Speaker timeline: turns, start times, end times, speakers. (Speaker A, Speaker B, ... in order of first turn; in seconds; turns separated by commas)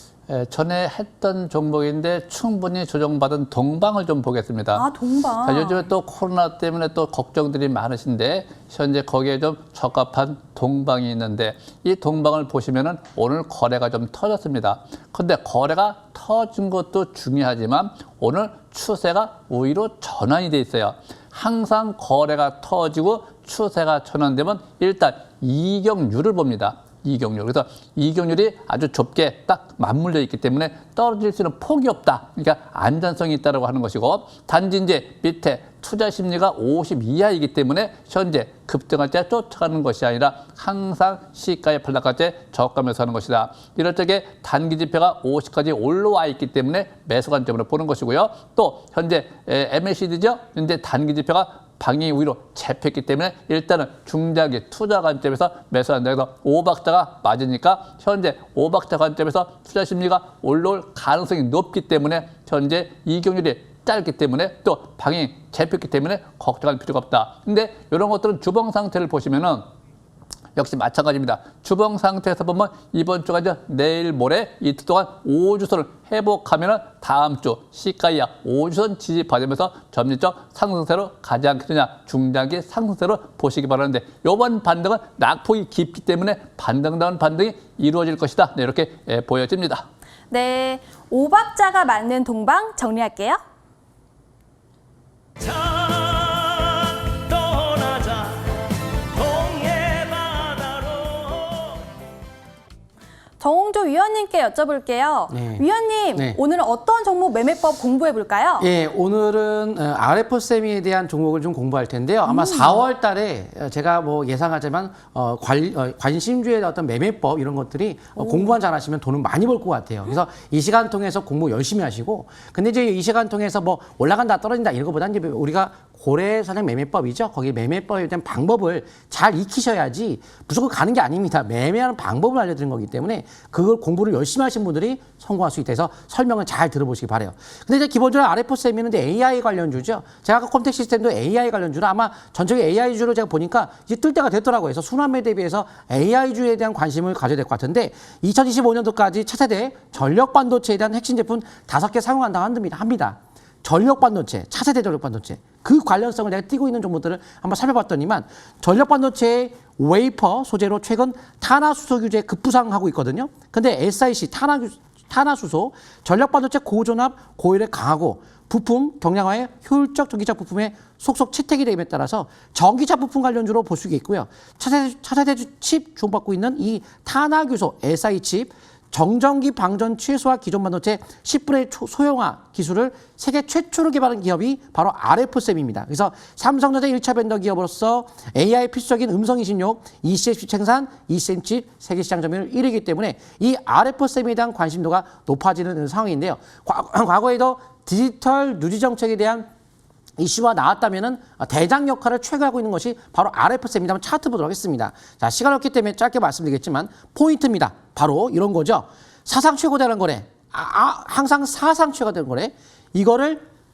Speaker A: 0.3-4.9, Speaker B: 4.7-5.9, Speaker A: 5.4-69.7, Speaker A: 70.5-89.8, Speaker B: 90.3-93.4, Speaker C: 99.4-100.2, Speaker B: 103.4-108.7, Speaker C: 105.3-106.4, Speaker C: 108.6-199.5, Speaker B: 112.3-112.7, Speaker C: 200.2-213.4